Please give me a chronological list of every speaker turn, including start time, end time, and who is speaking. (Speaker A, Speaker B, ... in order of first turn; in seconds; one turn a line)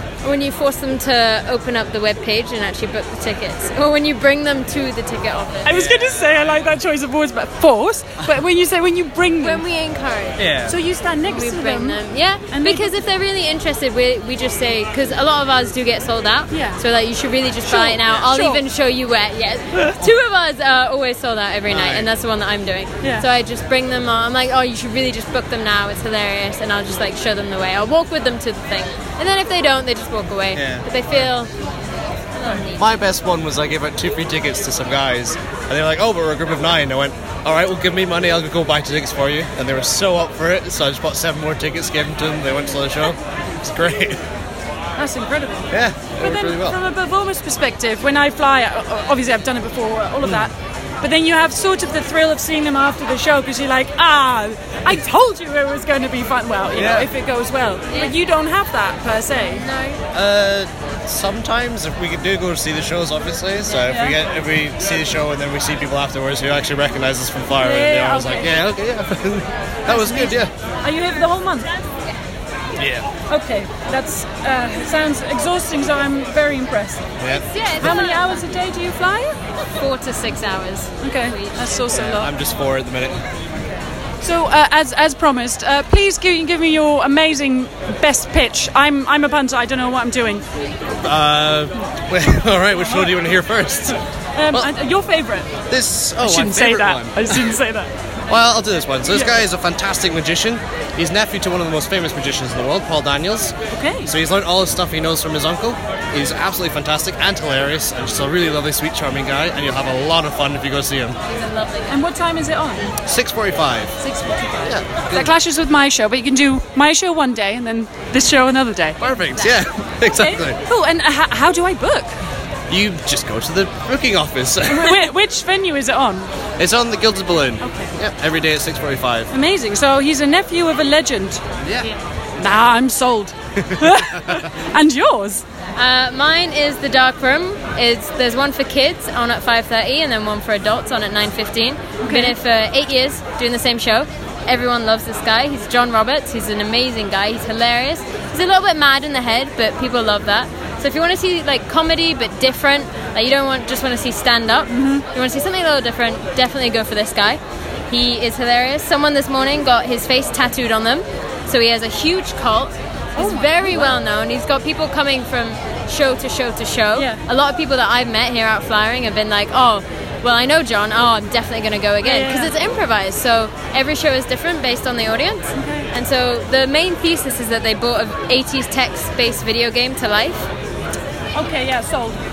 Speaker A: 0.2-5.8
Speaker B: 5.6-9.6
Speaker C: 5.7-6.5
Speaker A: 9.4-10.4
Speaker C: 10.4-10.8
Speaker B: 10.7-12.0
Speaker A: 11.2-31.5
Speaker B: 12.5-13.0
Speaker B: 16.5-16.8
Speaker B: 17.6-18.6
Speaker C: 21.7-22.1
Speaker C: 30.5-30.9
Speaker A: 32.4-32.9
Speaker C: 32.8-44.2
Speaker B: 45.0-59.7
Speaker C: 45.7-46.8
Speaker C: 50.2-50.5
Speaker C: 56.7-57.1
Speaker A: 57.9-58.2
Speaker A: 59.3-60.0
Speaker C: 60.1-70.5
Speaker B: 63.9-64.2
Speaker B: 67.6-68.5
Speaker B: 69.9-71.7
Speaker C: 72.8-73.1
Speaker B: 73.3-77.1
Speaker C: 77.2-78.0
Speaker A: 77.3-78.5
Speaker B: 77.8-79.4
Speaker A: 79.6-81.9
Speaker B: 81.0-82.3
Speaker C: 81.9-83.2
Speaker B: 84.2-90.4
Speaker C: 91.0-94.0
Speaker B: 94.3-95.5
Speaker C: 95.7-97.5
Speaker B: 96.2-97.9
Speaker C: 98.3-111.2
Speaker B: 99.1-99.4
Speaker B: 103.7-104.1
Speaker A: 111.3-112.0
Speaker B: 111.9-112.9
Speaker C: 113.0-113.9
Speaker A: 114.0-114.8
Speaker C: 114.7-115.3
Speaker B: 115.1-119.0
Speaker C: 119.0-120.6
Speaker B: 120.1-122.2
Speaker C: 122.7-125.1
Speaker B: 124.7-126.3
Speaker C: 126.6-129.3
Speaker B: 127.6-127.9
Speaker B: 129.3-131.4
Speaker C: 131.6-131.9
Speaker B: 132.4-135.4
Speaker C: 133.7-134.4
Speaker A: 135.8-180.5
Speaker B: 142.0-142.4
Speaker B: 154.7-155.1
Speaker B: 163.2-164.0
Speaker B: 166.9-167.2
Speaker B: 172.0-172.5
Speaker B: 175.5-175.9
Speaker B: 181.3-182.2